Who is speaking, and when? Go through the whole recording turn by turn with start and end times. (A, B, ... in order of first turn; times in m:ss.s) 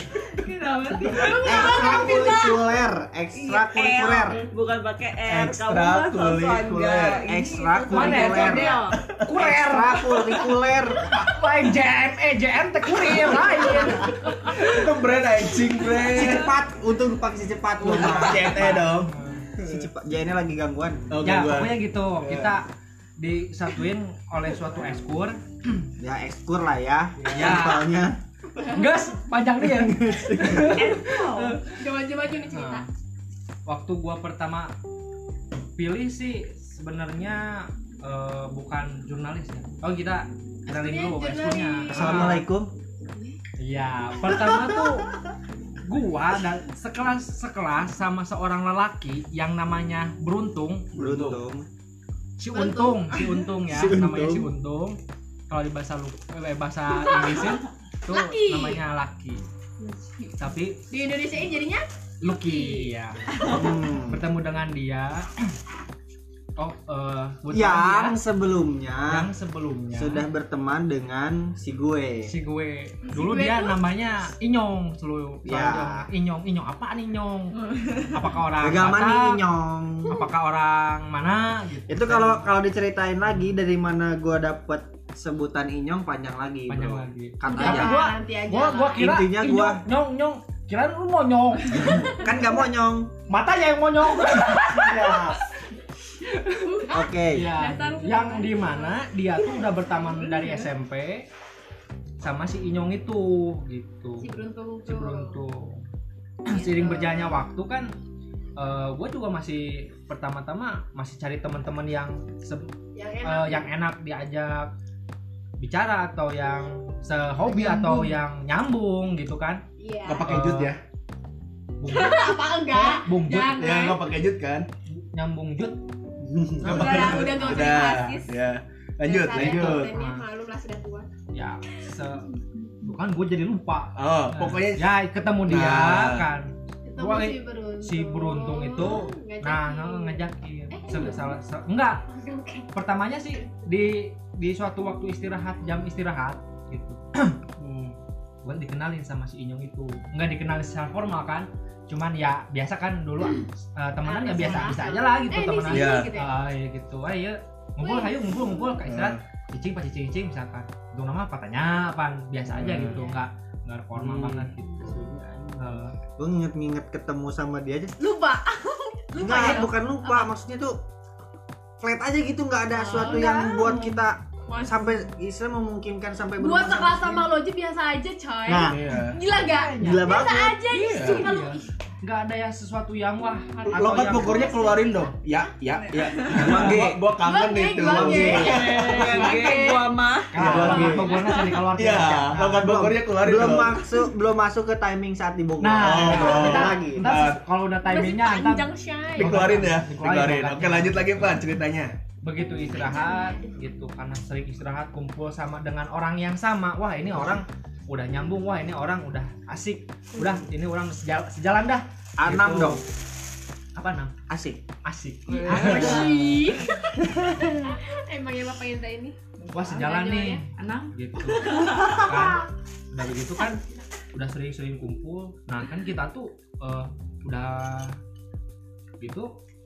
0:00.2-0:02.6 A
0:01.2-0:02.5 B
0:01.3-0:04.5 C
0:03.3-0:08.5 A
0:05.3-0:05.6 C
0:05.4-0:07.3 D
0:07.2-0:08.8 C
0:07.9-0:10.2 E
0:08.2-0:09.0 B
0:09.3-0:11.1 C
0:11.0-0:14.6 E
0:13.5-0:14.5 B
0:14.4-0:16.5 D
0:16.0-0:18.8 C
0:17.8-0:19.9 D
0:17.9-0:19.5 E
0:19.6-0:21.1 C
0:21.1-0:22.6 D
0:21.2-0:25.8 E
0:26.0-0:28.2 C
0:27.2-0:27.6 D
0:27.3-0:27.9 E
0:28.6-0:28.9 B
0:28.6-0:31.6 E
0:29.6-0:31.0 C
0:30.9-0:31.4 A
0:31.0-0:32.8 B
0:32.5-0:32.8 E
0:33.7-0:34.7 E
0:35.7-0:42.4 E
0:40.7-0:42.4 B
0:41.9-0:42.7 C
0:43.6-0:45.2 E
0:45.8-0:51.4 E
0:50.9-0:51.7 C
0:52.4-0:55.0 E
0:52.5-0:53.1 B
0:53.7-0:54.5 C
0:55.5-0:59.4 E
0:56.9-0:58.8 B
0:59.8-1:00.3 A
1:00.4-1:00.8 E
1:00.9-1:02.9 B
1:02.2-1:05.5 E
1:03.5-1:04.2 C
1:06.6-1:08.2 E
1:07.5-1:09.3 C
1:09.0-1:10.2 E
1:09.9-1:12.3 C
1:12.2-1:19.4 E
1:13.1-1:13.8 B
1:15.4-1:16.1 C
1:17.6-1:18.1 A
1:18.6-1:20.2 C
1:20.1-1:22.5 E
1:21.9-1:28.0 C
1:26.7-1:32.2 E
1:27.4-1:29.1 B
1:29.0-1:29.8 C
1:31.7-1:33.1 C
1:31.8-1:32.3 B
1:33.3-1:35.4 E
1:34.6-1:35.4 C
1:36.5-1:39.0 B
1:36.9-1:37.5 C
1:37.3-1:41.2 E
1:40.2-1:40.6 B
1:42.2-1:45.8 E
1:44.2-1:45.4 B
1:46.4-1:47.9 E
1:46.5-1:47.4 B
1:48.6-1:52.7 E
1:53.0-1:53.7 B
1:53.2-1:54.7 E
1:55.6-1:59.6 E
1:57.6-1:58.1 B
1:59.8-2:00.4 B
2:00.0-2:00.8 D
2:00.2-2:00.7 E
2:01.8-2:03.6 E
2:01.9-2:04.1 B
2:03.5-2:04.7 D
2:04.9-2:05.8 E
2:06.3-2:06.9 C
2:06.6-2:09.9 D
2:06.6-2:08.4 B
2:07.6-2:08.0 E
2:09.0-2:11.1 B
2:09.4-2:10.2 E
2:11.3-2:22.0 E
2:14.0-2:14.9 D
2:15.5-2:16.3 D
2:16.8-2:21.4 B
2:22.0-2:22.8 B
2:22.7-2:27.3 E
2:27.6-2:28.0 D
2:28.4-2:45.0 E
2:34.0-2:36.3 B
2:35.7-2:36.1 D
2:37.8-2:38.8 B
2:38.8-2:39.2 D
2:42.5-2:43.0 D
2:42.8-2:43.2 B
2:44.0-2:44.5 D
2:44.8-2:48.0 C
2:45.6-2:45.9 E
2:48.0-2:50.3 B
2:49.2-2:50.8 C
2:51.8-2:57.3 C
2:52.7-2:54.0 B
2:52.9-2:53.8 E
2:54.5-2:55.0 B
2:56.4-3:01.7 B
2:58.4-2:58.7 C
2:58.7-2:59.2 D
2:59.2-3:04.5 E
2:59.8-3:00.6 C
3:00.9-3:01.3 D
3:03.6-3:05.1 B
3:03.7-3:09.3 D
3:05.9-3:06.7 A
3:06.3-3:07.0 C
3:07.2-3:10.0 B
3:07.8-3:08.7 C
3:08.3-3:09.8 E
3:08.3-3:10.3 A
3:10.3-3:12.7 E
3:10.3-3:11.1 C
3:10.4-3:13.8 D
3:10.7-3:11.4 B
3:12.3-3:17.1 C
3:15.6-3:21.4 E
3:15.8-3:17.4 D
3:17.8-3:19.5 B
3:19.2-3:21.9 D
3:22.2-3:32.8 E
3:22.7-3:23.6 B
3:32.2-3:32.8 C
3:33.7-3:34.1 E
3:34.3-3:34.6 C
3:34.8-3:36.5 E
3:35.3-3:36.2 A
3:35.5-3:40.4 B
3:39.5-3:39.8 A
3:39.5-3:43.6 E
3:40.6-3:42.0 A
3:44.1-3:48.0 E
3:49.0-3:49.3 E